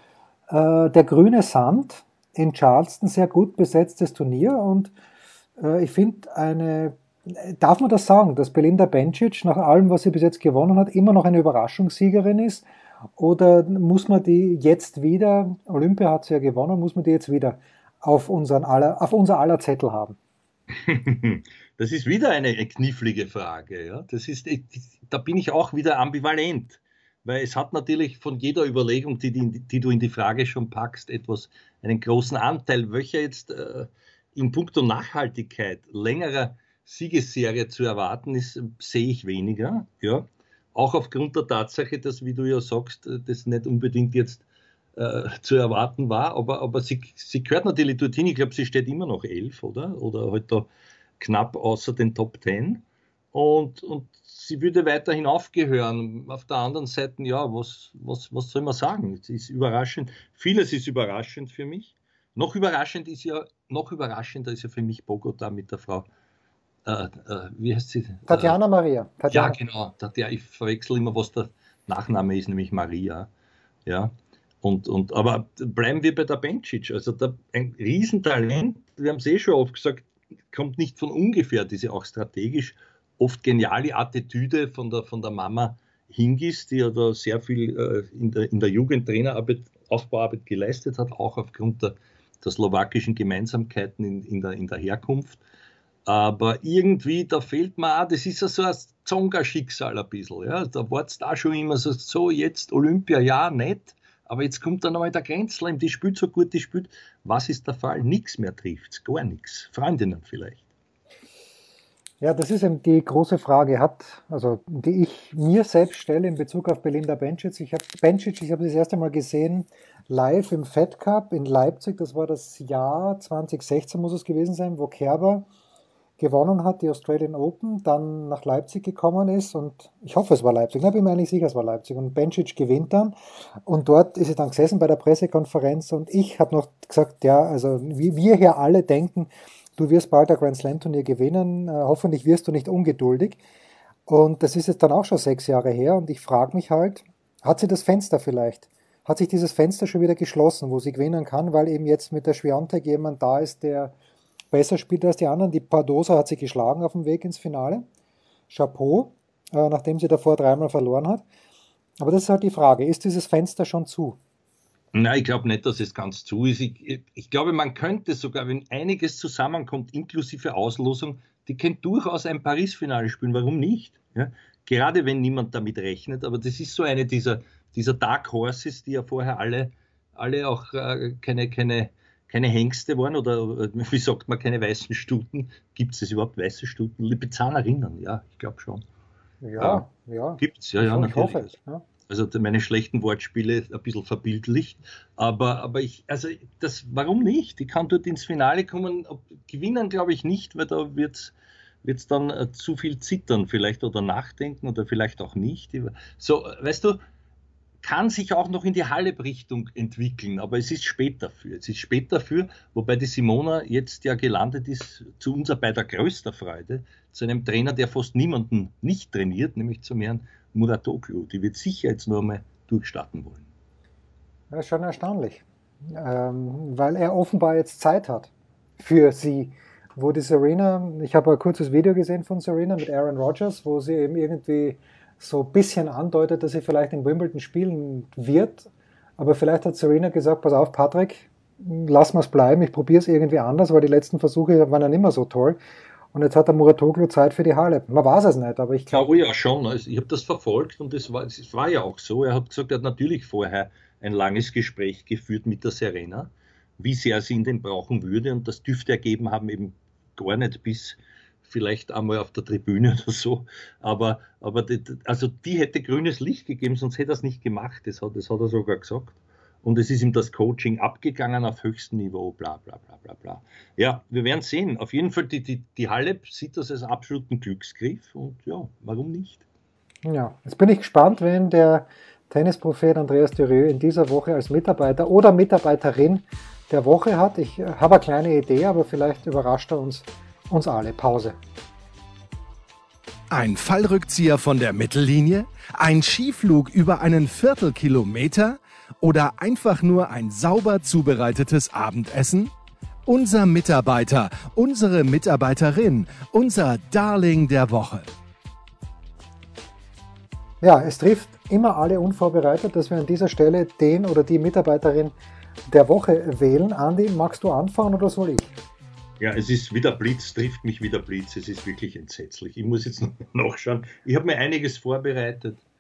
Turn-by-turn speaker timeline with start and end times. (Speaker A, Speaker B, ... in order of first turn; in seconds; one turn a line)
Speaker A: 0.5-4.9
Speaker A: 5.6-12.6
Speaker A: 13.2-20.2
Speaker B: 20.7-44.4
Speaker B: 45.0-50.7
Speaker B: 51.2-66.1
Speaker B: 66.8-68.5
Speaker A: 68.3-69.6
Speaker B: 69.3-73.3
Speaker B: 73.8-95.4
Speaker B: 96.0-110.6
Speaker A: 112.2-125.5
Speaker A: 126.2-143.4
Speaker A: 144.1-153.9
Speaker A: 154.5-157.8
Speaker A: 158.5-161.2
Speaker A: 162.0-164.2
Speaker B: 164.9-188.8
Speaker A: 189.4-191.8
Speaker B: 189.6-189.8
Speaker B: 190.4-191.6
Speaker B: 192.1-207.0
Speaker B: 207.8-223.4
Speaker A: 224.5-245.6
Speaker A: 246.1-249.2
Speaker B: 248.9-279.4
Speaker A: 280.0-291.4
Speaker C: 293.3-302.5
Speaker C: 303.1-308.1
Speaker A: 310.6-315.1
Speaker A: 315.7-318.5
Speaker B: 319.2-325.6